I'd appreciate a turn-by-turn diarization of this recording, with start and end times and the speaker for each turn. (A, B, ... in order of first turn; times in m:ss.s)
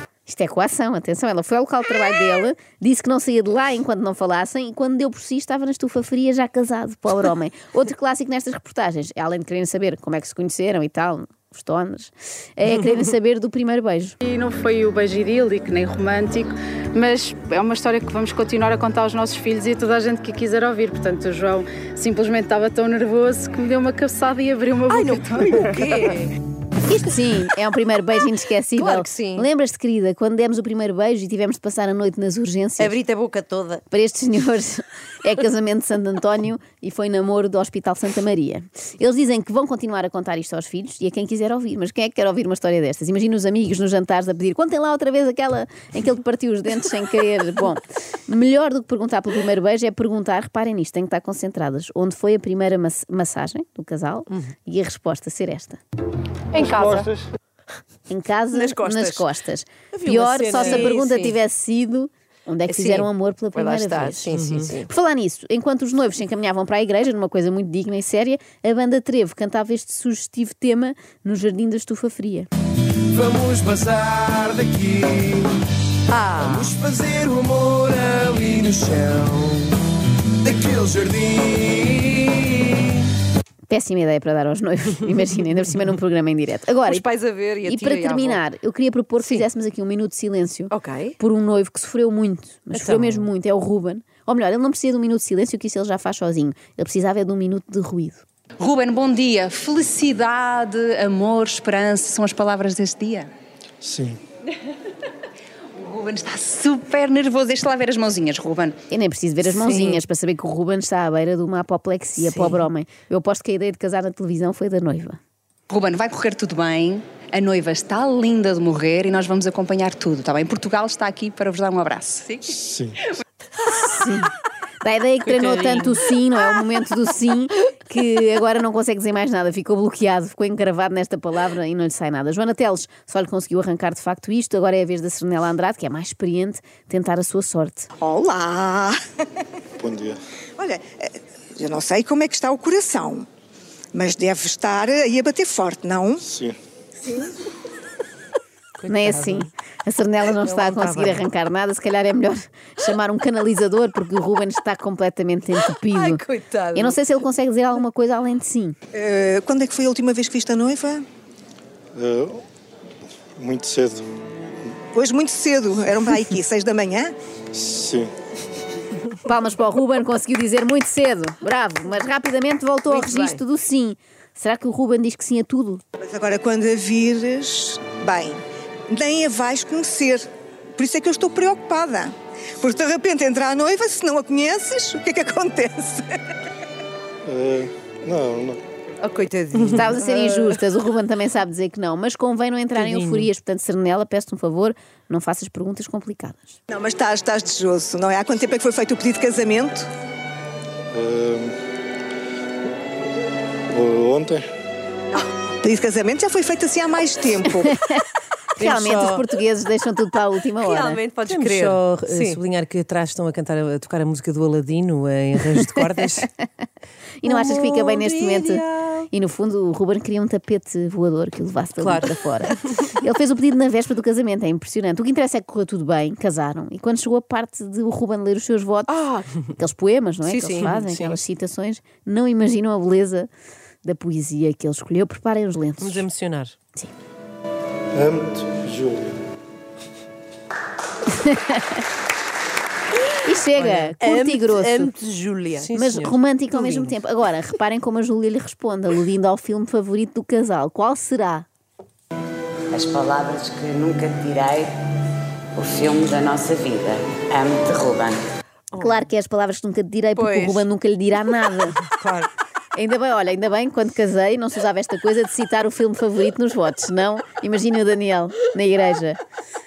0:00.2-0:14.2 A
0:14.2-0:25.4 B
0:24.9-0:26.3 C
0:26.8-0:33.0 A
0:28.8-0:29.5 C
0:32.8-0:33.8 C
0:33.9-0:55.8 A
0:58.1-1:12.5 A
0:58.5-0:59.3 C
0:59.9-1:00.9 D
1:00.6-1:01.4 C
1:02.7-1:04.9 C
1:04.3-1:04.7 D
1:13.1-1:15.5 E
1:16.1-1:16.7 C
1:16.4-1:19.6 E
1:20.4-1:22.2 E
1:23.7-1:27.0 A
1:26.8-1:28.4 C
1:27.6-1:38.2 A
1:30.7-1:31.2 C
1:32.8-1:33.3 D
1:38.6-1:43.3 F
1:43.8-1:44.2 G
1:45.9-1:48.7 F
1:48.9-1:55.2 A
1:49.5-1:50.0 C
1:55.7-2:02.4 F
2:02.6-2:03.0 G
2:03.7-2:04.3 A
2:04.8-2:17.9 A
2:05.3-2:05.9 D
2:18.0-2:19.0 H
2:19.8-2:20.2 G
2:20.6-2:23.3 H
2:23.9-2:26.2 H
2:26.2-2:26.6 G
2:28.8-2:29.5 D
2:28.9-2:36.2 A
2:30.6-2:31.2 C
2:35.9-2:37.0 C
2:36.7-2:38.8 A
2:38.9-2:41.0 H
2:41.9-2:42.4 G
2:43.4-2:44.0 G
2:44.9-2:47.1 H
2:47.5-2:48.1 G
2:49.2-2:55.8 A
2:52.9-2:53.4 C
2:56.0-3:06.2 H
3:07.2-3:08.6 G
3:09.0-3:10.5 C
3:09.7-3:16.6 A
3:12.7-3:13.3 D
3:16.7-3:19.8 H
3:20.9-3:21.6 G
3:23.7-3:24.5 G
3:25.6-3:27.7 H
3:28.6-3:29.2 D
3:28.6-3:31.0 A
3:30.6-3:32.4 C
3:31.2-3:36.3 D
3:37.2-3:53.3 A
3:37.2-3:39.0 D
3:41.8-3:42.1 C
3:48.9-3:49.3 C
3:50.2-3:50.6 C
3:50.6-3:51.2 D
3:53.8-3:56.0 A
3:55.8-3:56.6 D
3:57.9-3:59.2 G
4:01.1-4:01.8 A
4:03.2-4:04.9 A
4:03.6-4:03.9 D
4:04.0-4:05.7 C
4:05.6-4:06.9 D
4:05.7-4:11.5 A
4:12.7-4:14.7 I
4:15.6-4:18.2 I
4:18.7-4:19.0 C
4:18.8-4:21.8 A
4:20.2-4:20.6 C
4:22.7-4:29.2 A